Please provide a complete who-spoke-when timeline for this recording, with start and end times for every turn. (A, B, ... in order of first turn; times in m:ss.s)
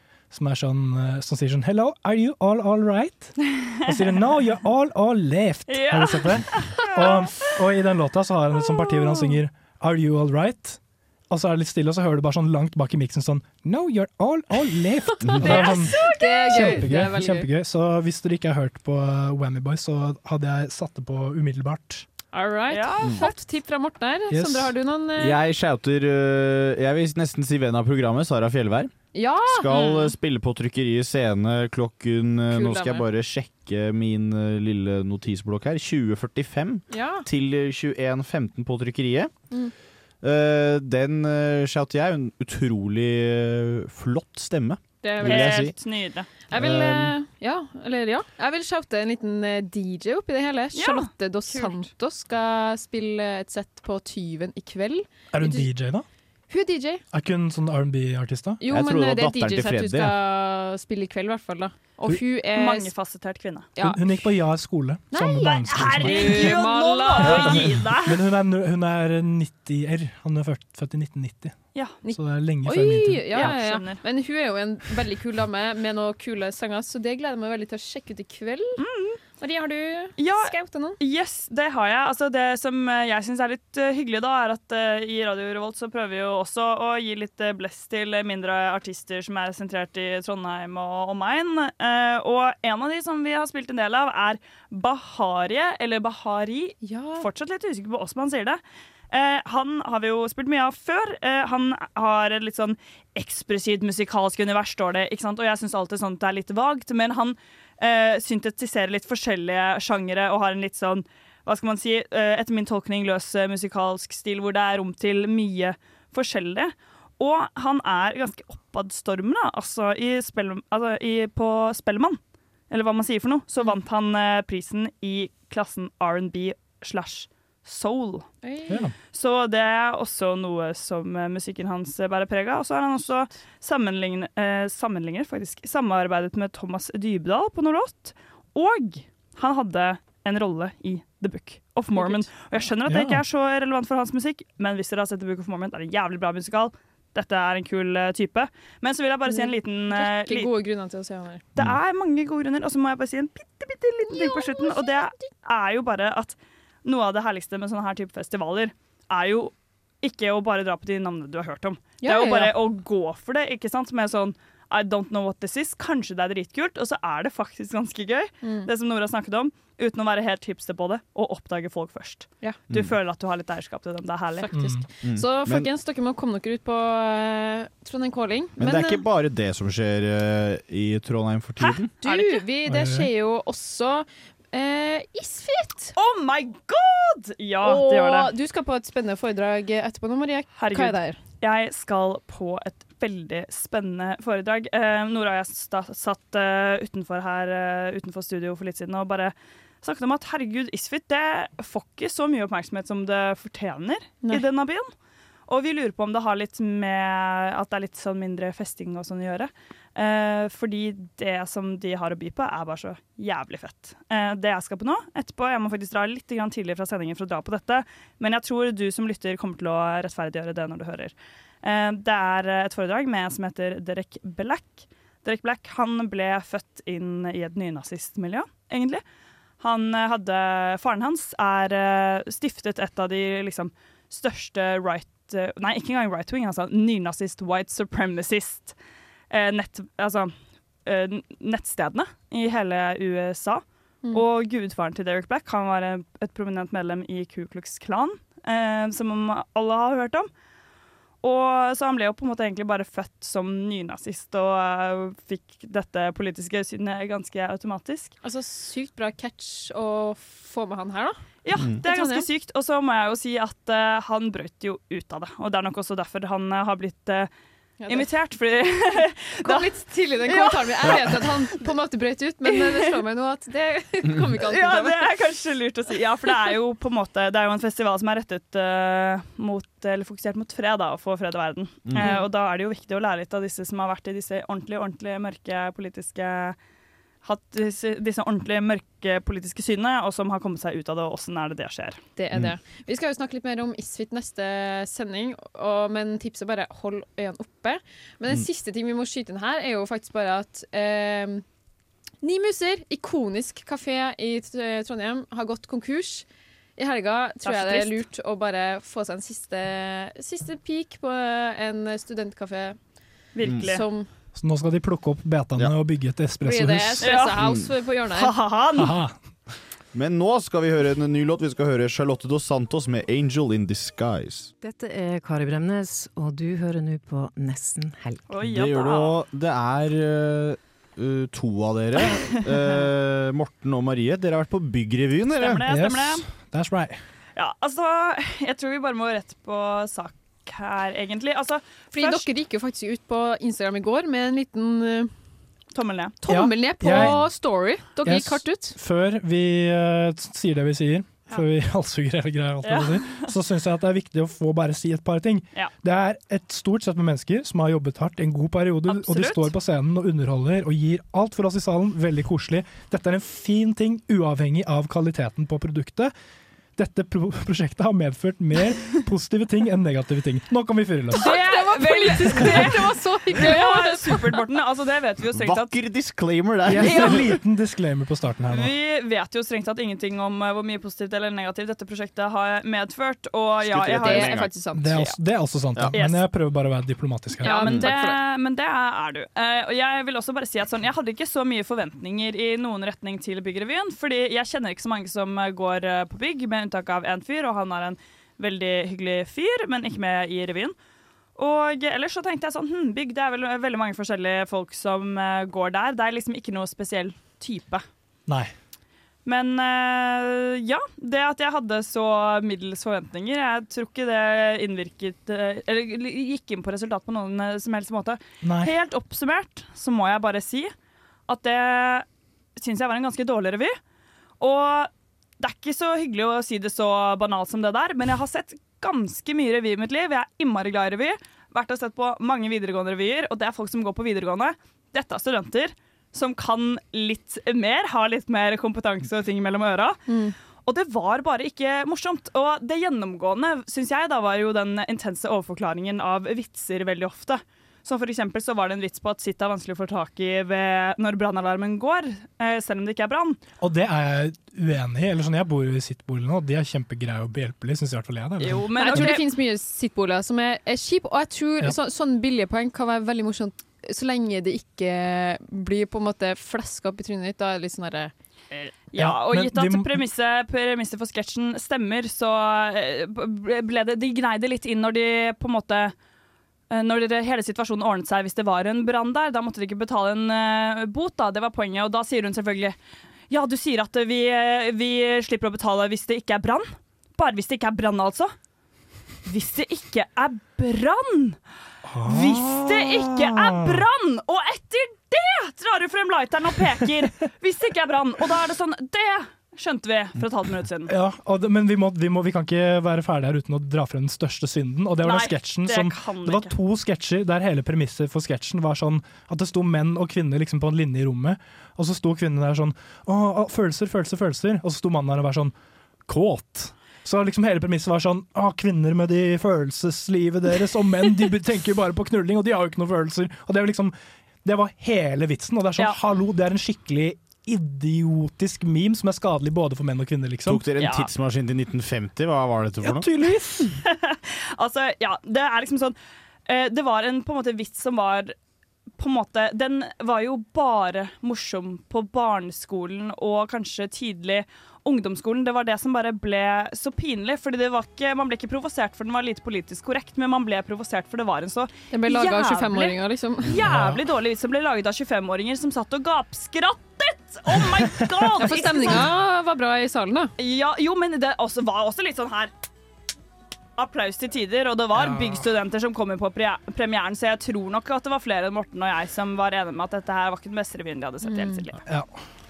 0:00.3-0:22.1 A
0:05.7-0:07.6 B
0:09.0-0:09.4 C
0:15.2-0:17.5 C
0:15.4-0:16.8 B
0:22.3-0:25.4 C
0:22.7-0:23.4 B
0:24.3-0:24.8 A
0:25.2-0:28.9 D
0:29.1-0:29.9 C
0:29.4-0:39.6 D
0:29.7-0:30.1 B
0:32.5-0:33.1 C
0:36.9-0:37.3 C
0:40.2-0:45.8 D
0:45.0-0:45.8 C
0:45.2-0:46.3 B
0:46.5-0:55.7 C
0:46.5-0:47.2 D
0:50.7-0:51.9 B
0:55.3-0:56.1 A
0:56.5-0:57.0 C
0:57.1-0:58.6 A
0:58.6-1:02.9 C
0:58.7-1:00.2 D
1:02.5-1:03.7 B
1:03.8-1:04.0 C
1:03.8-1:06.6 A
1:05.1-1:05.5 C
1:05.4-1:08.2 B
1:06.0-1:07.7 C
1:07.2-1:13.6 A
1:11.7-1:12.0 B
1:12.0-1:18.8 C
1:13.3-1:14.0 B
1:18.8-1:19.2 B
1:19.4-1:21.0 C
1:20.2-2:02.2 B
1:36.8-1:37.3 C
2:02.7-2:08.3 B
2:08.4-2:08.9 C
2:08.7-2:08.9 A
2:09.1-2:30.5 B
2:21.9-2:22.3 C
2:22.8-2:23.2 A
2:29.3-2:31.4 C
2:31.6-2:54.5 B
2:34.1-2:35.1 C
2:42.0-2:42.5 C
2:48.4-2:48.7 C
2:52.7-2:53.0 D
2:54.4-2:59.0 C
2:54.5-2:54.8 A
2:55.0-2:55.7 D
2:58.6-3:01.9 D
3:01.6-3:02.4 B
3:02.0-3:06.0 C
3:02.7-3:03.1 A
3:06.0-3:08.3 B
3:07.6-3:11.2 C
3:10.6-3:24.9 B
3:25.5-3:49.0 B
3:49.6-3:58.8 B
3:59.3-4:00.3 B
4:00.8-4:10.3 B
4:11.2-4:18.1 B
4:18.2-4:21.2 C
4:21.4-4:27.3 B
4:21.8-4:22.3 C
4:27.8-4:28.1 C
4:27.9-4:29.7 B
4:29.4-4:35.1 C
4:30.2-4:31.6 B
4:32.5-4:32.8 B
4:34.5-4:46.6 B
4:41.9-4:42.1 D
4:42.0-4:42.3 C
4:47.2-4:52.0 B
4:52.2-5:01.4 C
5:02.2-5:12.8 C
5:07.4-5:08.0 B
5:13.3-5:13.9 B
5:13.4-5:13.7 D
5:13.6-5:14.1 C
5:14.4-5:17.1 A
5:16.4-5:18.3 C
5:17.0-5:17.4 B
5:17.4-5:17.7 D
5:18.1-5:19.0 B
5:18.8-5:19.2 A
5:19.9-5:24.5 D
5:24.9-5:28.0 E
5:28.3-5:29.2 B
5:28.4-5:35.6 D
5:35.4-5:36.2 B
5:35.7-5:37.0 A
5:37.4-5:42.2 B
5:41.9-5:45.1 C
5:45.8-5:46.2 B
5:46.2-5:48.8 C
5:46.3-5:47.2 A
5:48.0-6:06.1 A
5:52.6-5:53.3 B
5:58.9-5:59.5 B
6:06.8-6:11.3 A
6:11.1-6:14.4 C
6:11.1-6:15.8 B
6:15.3-6:17.4 D
6:16.7-6:18.7 A
6:16.8-6:17.2 B
6:18.5-6:24.5 B
6:23.6-6:24.5 D
6:24.0-6:25.1 C
6:24.8-6:27.7 A
6:25.9-6:26.2 B
6:27.4-6:28.2 C
6:27.4-6:40.8 B
6:41.4-6:47.8 B
6:48.3-6:48.5 A
6:49.3-7:00.7 B
6:58.4-6:58.7 A
7:01.3-7:03.8 B
7:04.4-7:20.0 B
7:20.1-7:20.3 C
7:20.6-7:33.4 B
7:33.6-7:39.2 A
7:38.4-7:39.2 B
7:38.8-7:48.1 C
7:48.5-7:55.9 B
7:49.0-7:50.0 A
7:56.7-8:02.8 B
8:03.3-8:08.3 B
8:09.3-8:11.4 B
8:11.8-8:13.8 A
8:12.0-8:20.9 B
8:20.9-8:35.5 A
8:25.0-8:26.5 B
8:36.1-8:50.6 A
8:50.5-8:53.1 D
8:50.8-8:51.1 B
8:52.8-8:53.8 A
8:53.8-8:58.4 B
8:59.0-9:19.1 B
9:11.9-9:13.6 C
9:13.5-9:14.0 A
9:17.6-9:18.3 A
9:18.4-9:20.3 C
9:20.4-9:22.5 B
9:23.8-9:31.8 B
9:25.0-9:25.4 A
9:31.2-9:31.6 C
9:31.9-9:32.2 A